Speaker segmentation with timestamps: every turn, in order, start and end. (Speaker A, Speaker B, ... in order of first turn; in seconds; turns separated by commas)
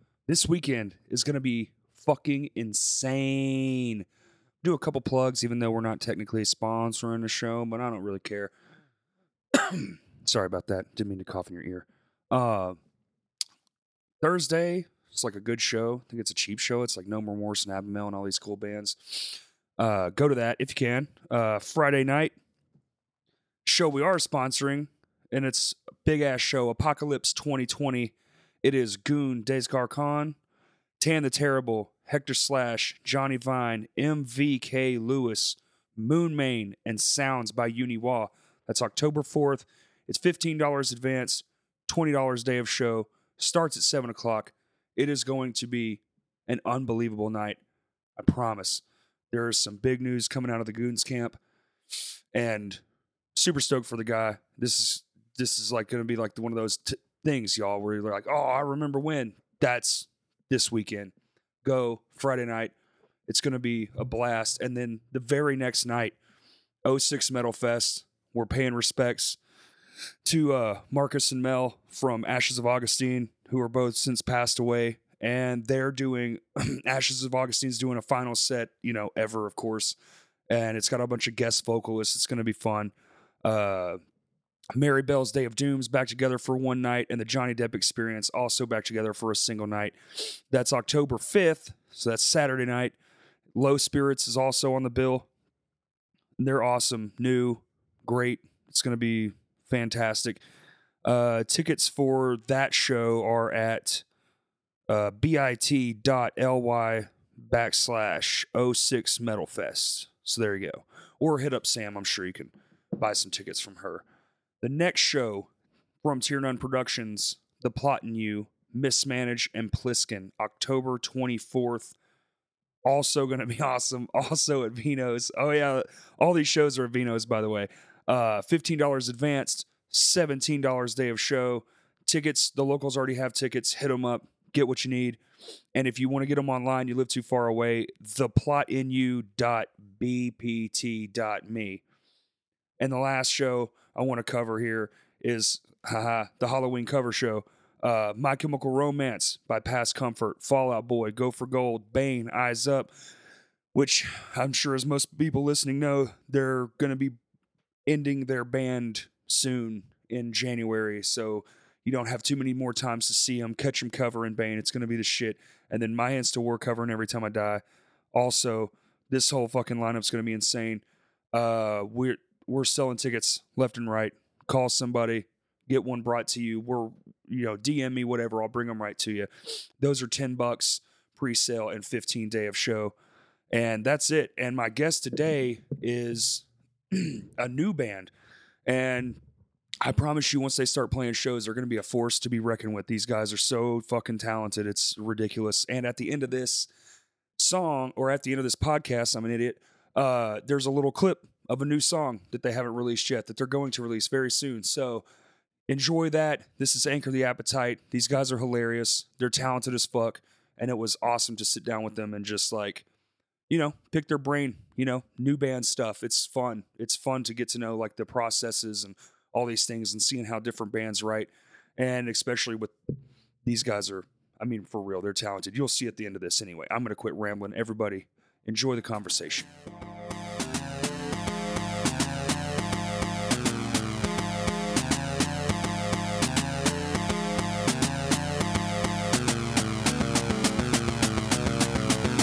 Speaker A: 0.3-4.0, Speaker A: 4.6-8.5, Speaker A: 9.5-12.8, Speaker A: 14.2-22.4, Speaker A: 23.6-30.4, Speaker A: 31.0-47.6, Speaker A: 48.2-51.4, Speaker A: 52.3-52.8, Speaker A: 53.3-61.1, Speaker A: 61.6-62.7, Speaker A: 63.3-66.2, Speaker A: 66.8-69.4, Speaker A: 70.2-80.0, Speaker A: 80.5-82.9, Speaker A: 83.4-84.0, Speaker A: 84.7-93.0, Speaker A: 93.5-95.3, Speaker A: 96.4-100.4, Speaker A: 101.0-104.0, Speaker A: 104.9-114.0, Speaker A: 114.6-115.5, Speaker A: 116.0-122.0, Speaker A: 122.8-135.2, Speaker A: 135.8-141.8, Speaker A: 142.8-152.9, Speaker A: 153.7-157.2, Speaker A: 157.9-167.6, Speaker A: 168.1-182.9, Speaker A: 183.5-188.1, Speaker A: 188.7-189.2, Speaker A: 189.8-196.7, Speaker A: 197.4-205.1, Speaker A: 205.7-212.9, Speaker A: 213.5-222.7, Speaker A: 223.4-229.5